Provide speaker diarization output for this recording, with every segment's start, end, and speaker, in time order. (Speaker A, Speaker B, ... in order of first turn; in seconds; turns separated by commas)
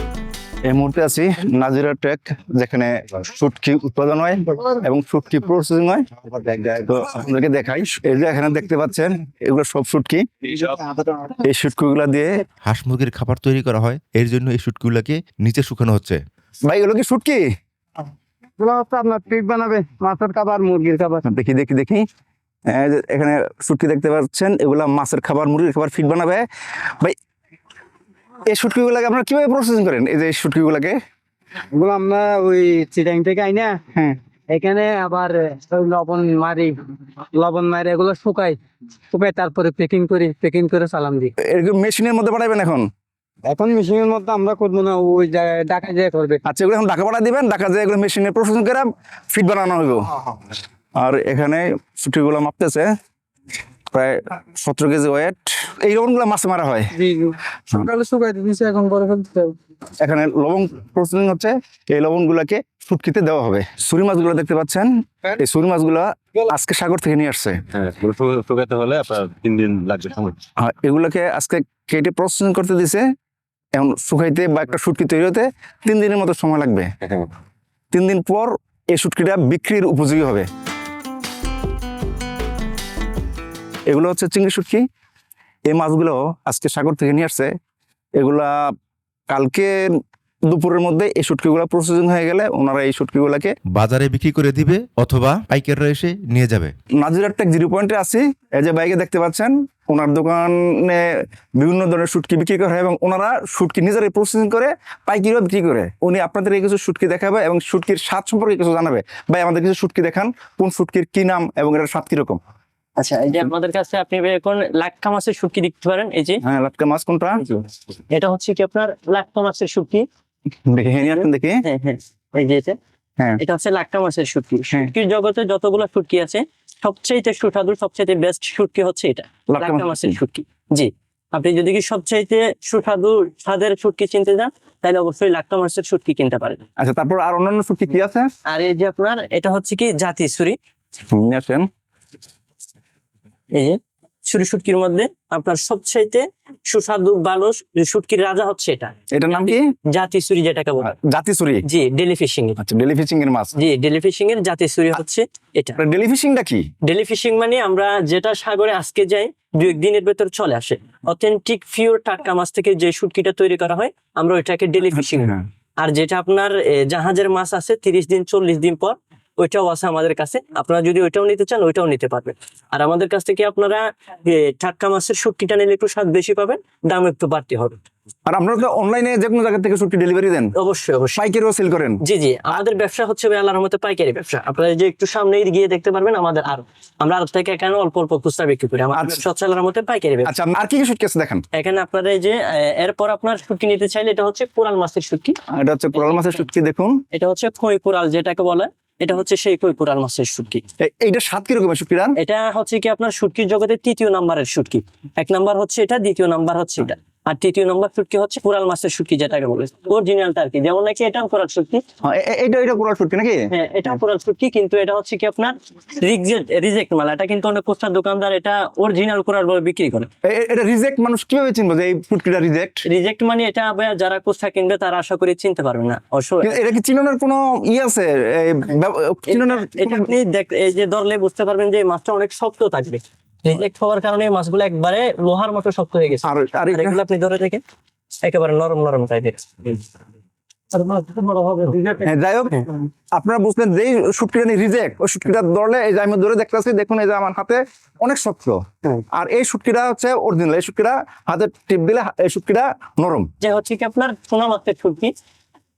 Speaker A: 0.7-10.2, Speaker B: 10.6-11.4, Speaker A: 11.4-12.3, Speaker C: 12.6-16.2, Speaker A: 16.6-17.4, Speaker B: 18.6-21.2, Speaker A: 21.2-22.0, Speaker A: 22.7-27.1, Speaker A: 28.5-31.0, Speaker B: 31.7-33.8, Speaker B: 34.5-36.8, Speaker B: 37.3-38.6, Speaker B: 39.1-41.3, Speaker A: 41.4-42.9, Speaker B: 43.4-46.4, Speaker A: 46.5-50.1, Speaker A: 51.0-52.9, Speaker A: 53.9-56.9, Speaker B: 57.0-59.5, Speaker A: 60.0-67.5, Speaker D: 67.7-70.4, Speaker A: 70.6-73.0, Speaker A: 73.7-76.9, Speaker A: 77.9-80.5, Speaker A: 83.9-84.8, Speaker A: 85.7-87.5, Speaker A: 88.2-88.7, Speaker A: 89.3-90.0, Speaker A: 90.5-93.5, Speaker C: 93.7-96.7, Speaker A: 97.0-112.4, Speaker E: 113.0-116.4, Speaker A: 116.4-117.4, Speaker E: 117.4-120.0, Speaker A: 120.7-121.6, Speaker E: 121.0-122.8, Speaker E: 123.4-136.6, Speaker A: 129.5-130.2, Speaker A: 136.8-138.3, Speaker E: 138.5-140.6, Speaker A: 141.1-141.7, Speaker E: 143.5-148.9, Speaker A: 149.1-149.6, Speaker E: 149.9-150.9, Speaker A: 150.8-151.6, Speaker E: 151.6-152.6, Speaker A: 152.6-153.5, Speaker E: 153.6-155.8, Speaker A: 155.8-156.6, Speaker E: 156.8-177.8, Speaker A: 165.1-165.4, Speaker A: 178.3-180.5, Speaker E: 180.6-181.2, Speaker A: 181.1-182.0, Speaker E: 182.0-190.3, Speaker A: 188.9-189.2, Speaker A: 190.2-191.4, Speaker E: 191.5-195.4, Speaker A: 195.5-197.0, Speaker E: 196.0-196.4, Speaker E: 197.1-200.6, Speaker A: 200.8-202.2, Speaker E: 202.2-211.8, Speaker A: 212.0-213.4, Speaker E: 213.5-220.1, Speaker A: 220.2-222.8, Speaker E: 222.8-226.6, Speaker A: 226.4-230.1, Speaker E: 229.3-237.6, Speaker A: 236.2-237.0, Speaker E: 238.2-239.8, Speaker B: 240.7-242.0, Speaker A: 242.0-248.6, Speaker A: 249.1-253.3, Speaker E: 253.4-255.1